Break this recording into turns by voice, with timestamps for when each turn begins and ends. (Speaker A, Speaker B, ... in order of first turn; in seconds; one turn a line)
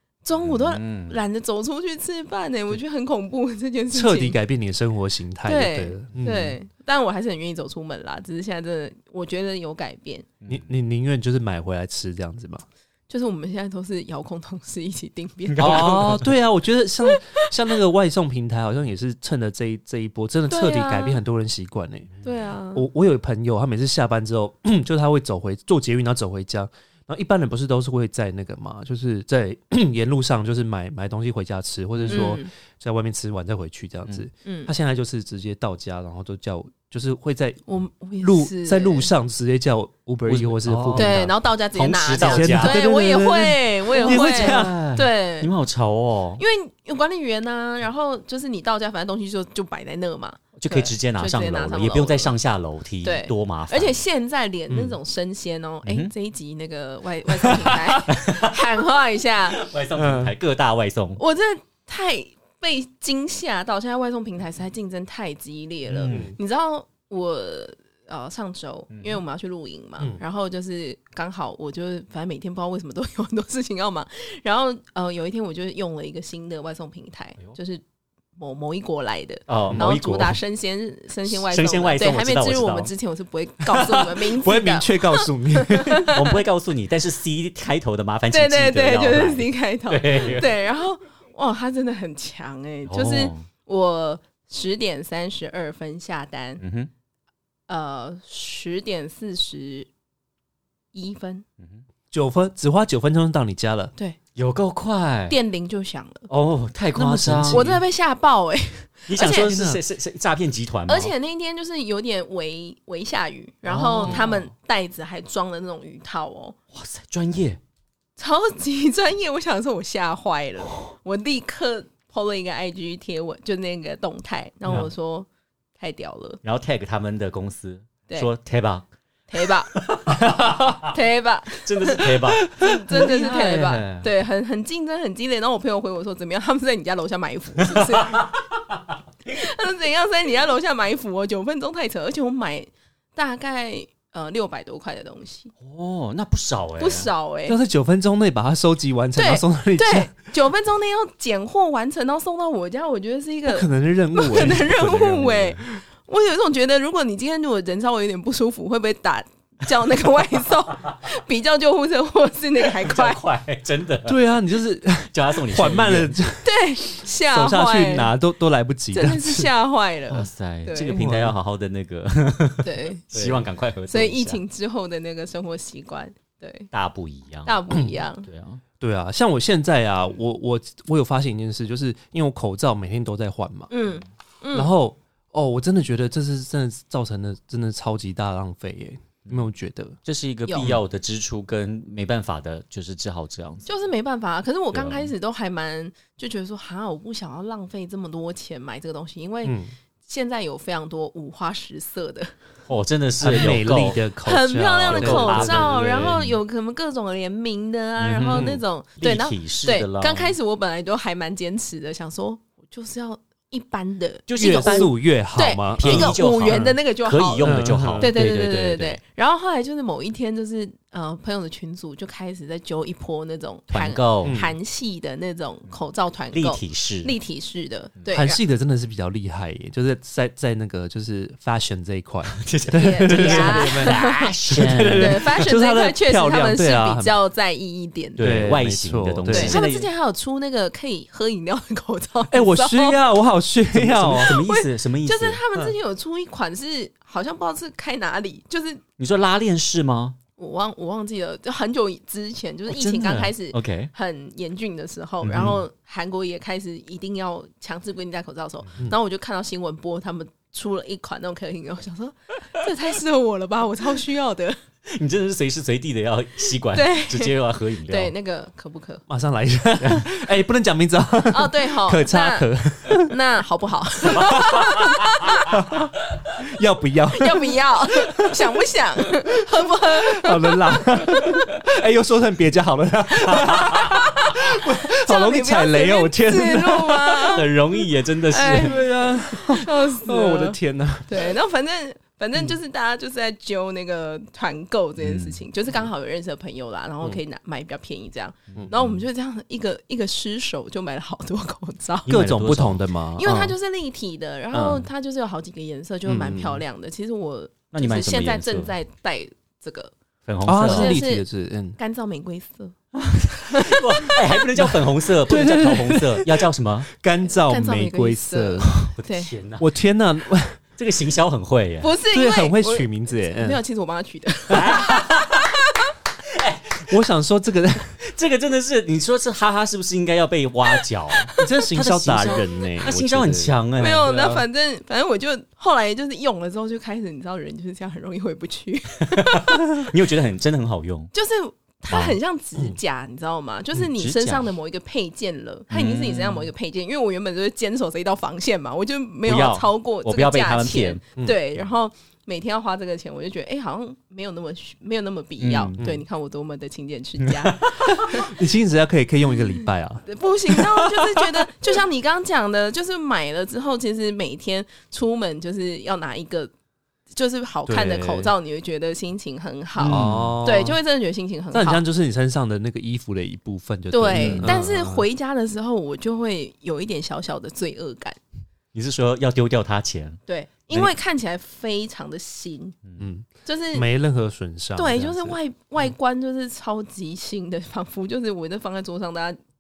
Speaker A: 0.2-4.4
Speaker B: 0.4-1.2
Speaker C: 3.9-6.6
Speaker A: 5.5-10.3
Speaker C: 10.5-12.6
Speaker A: 13.1-16.2
Speaker B: 15.5-16.3
Speaker C: 15.6-22.1
Speaker A: 20.5-21.2
Speaker A: 22.2-22.9
Speaker C: 22.7-37.6
Speaker B: 32.0-32.3
Speaker A: 32.1-32.5
Speaker A: 34.5-34.7
Speaker A: 37.7-39.1
Speaker C: 38.2-41.3
Speaker B: 40.3-41.1
Speaker A: 41.0-45.5
Speaker B: 41.7-42.8
Speaker C: 42.2-44.8
Speaker B: 43.9-46.4
Speaker A: 46.4-52.3
Speaker B: 50.6-54.0
Speaker A: 53.0-59.6
Speaker C: 54.7-55.0
Speaker B: 55.9-56.1
Speaker C: 57.5-58.0
Speaker B: 58.1-58.6
Speaker B: 59.5-61.2
Speaker C: 60.0-60.3
Speaker A: 61.2-77.8
Speaker B: 65.9-66.3
Speaker C: 66.1-66.4
Speaker B: 68.9-69.2
Speaker A: 78.4-86.4
Speaker B: 79.5-80.4
Speaker C: 79.7-80.3
Speaker B: 81.3-82.9
Speaker C: 83.7-86.1
Speaker B: 86.1-90.5
Speaker A: 88.3-96.6
Speaker B: 92.9-93.5
Speaker B: 96.6-96.9
Speaker A: 97.7-99.9
Speaker A: 100.9-101.5
Speaker C: 102.1-103.9
Speaker B: 104.4-105.4
Speaker A: 105.3-106.3
Speaker B: 106.3-107.8
Speaker C: 107.0-107.7
Speaker A: 107.5-109.5
Speaker B: 109.1-111.1
Speaker C: 109.4-109.8
Speaker A: 110.9-116.6
Speaker B: 113.7-114.5
Speaker B: 116.7-117.6
Speaker A: 118.2-125.3
Speaker A: 125.8-126.4
Speaker B: 126.4-128.9
Speaker A: 129.3-129.8
Speaker B: 129.8-130.9
Speaker A: 130.9-138.3
Speaker B: 131.6-134.1
Speaker C: 132.6-133.2
Speaker A: 139.3-145.5
Speaker B: 145.6-147.1
Speaker A: 146.8-147.6
Speaker C: 147.5-150.1
Speaker A: 149.2-163.2
Speaker C: 153.5-155.7
Speaker B: 162.8-164.2
Speaker C: 164.1-166.4
Speaker B: 165.1-166.2
Speaker A: 166.4-168.1
Speaker C: 167.3-169.5
Speaker A: 168.9-171.0
Speaker B: 170.1-174.4
Speaker C: 170.9-171.3
Speaker A: 172.6-173.0
Speaker C: 173.1-173.5
Speaker A: 173.9-176.7
Speaker B: 176.7-177.6
Speaker A: 177.4-178.3
Speaker B: 178.2-178.6
Speaker C: 178.8-183.7
Speaker A: 183.7-184.7
Speaker C: 184.5-190.0
Speaker B: 190.1-193.7
Speaker A: 190.5-190.8
Speaker A: 193.7-202.3
Speaker B: 194.7-195.1
Speaker C: 199.4-199.7
Speaker B: 202.7-204.0
Speaker C: 203.2-206.1
Speaker A: 204.2-228.4
Speaker B: 204.9-206.3
Speaker B: 208.0-210.3
Speaker C: 208.3-208.6
Speaker B: 214.3-214.9
Speaker C: 214.4-216.8
Speaker B: 215.8-219.0
Speaker C: 217.4-218.2
Speaker B: 223.7-224.4
Speaker C: 224.2-224.6
Speaker B: 226.3-227.1
Speaker C: 228.1-237.1
Speaker B: 232.3-235.4
Speaker A: 232.7-234.3
Speaker A: 234.9-238.3
Speaker B: 238.2-239.9
Speaker C: 238.2-239.6
Speaker A: 239.3-243.0
Speaker C: 242.3-244.4
Speaker B: 243.7-245.4
Speaker A: 244.2-248.8
Speaker B: 249.0-250.2
Speaker A: 250.4-264.6
Speaker B: 252.7-253.9
Speaker C: 255.3-255.5
Speaker B: 255.3-255.6
Speaker B: 264.9-268.1
Speaker A: 266.7-267.3
Speaker A: 267.9-269.1
Speaker C: 269.1-273.1
Speaker A: 271.3-272.5
Speaker A: 273.0-275.5
Speaker B: 274.2-275.0
Speaker C: 274.2-274.6
Speaker C: 275.5-277.6
Speaker A: 277.1-281.4
Speaker C: 280.0-287.3
Speaker B: 283.3-283.9
Speaker A: 283.3-287.5
Speaker B: 287.3-288.8
Speaker A: 288.3-302.1
Speaker C: 288.6-291.3
Speaker B: 295.0-295.4
Speaker B: 298.5-299.0
Speaker B: 302.1-303.6
Speaker C: 302.1-303.3
Speaker A: 303.2-309.9
Speaker C: 304.5-304.9
Speaker C: 306.1-306.6
Speaker B: 307.7-308.7
Speaker B: 310.3-310.9
Speaker C: 310.4-311.8
Speaker A: 310.6-314.4
Speaker B: 312.9-316.9
Speaker C: 315.3-318.9
Speaker A: 317.4-319.3
Speaker B: 319.0-319.7
Speaker C: 319.6-320.6
Speaker B: 320.8-321.9
Speaker A: 321.8-325.5
Speaker C: 322.1-323.6
Speaker B: 324.5-325.5
Speaker B: 326.3-327.0
Speaker C: 326.9-327.9
Speaker B: 328.0-334.3
Speaker C: 331.4-334.4
Speaker A: 333.8-339.9
Speaker B: 339.1-341.1
Speaker A: 341.1-358.3
Speaker B: 341.9-342.2
Speaker B: 343.8-344.5
Speaker B: 345.7-346.5
Speaker B: 349.2-351.0
Speaker B: 355.4-355.8
Speaker C: 355.8-356.0
Speaker B: 357.2-357.9
Speaker C: 357.9-360.8
Speaker A: 360.1-366.5
Speaker A: 367.1-371.8
Speaker C: 367.7-368.3
Speaker C: 369.8-370.8
Speaker B: 369.8-370.4
Speaker C: 371.5-375.1
Speaker A: 373.9-378.2
Speaker B: 374.1-374.5
Speaker B: 378.7-380.9
Speaker A: 380.3-382.8
Speaker C: 383.0-385.4
Speaker A: 383.4-383.9
Speaker A: 384.8-389.4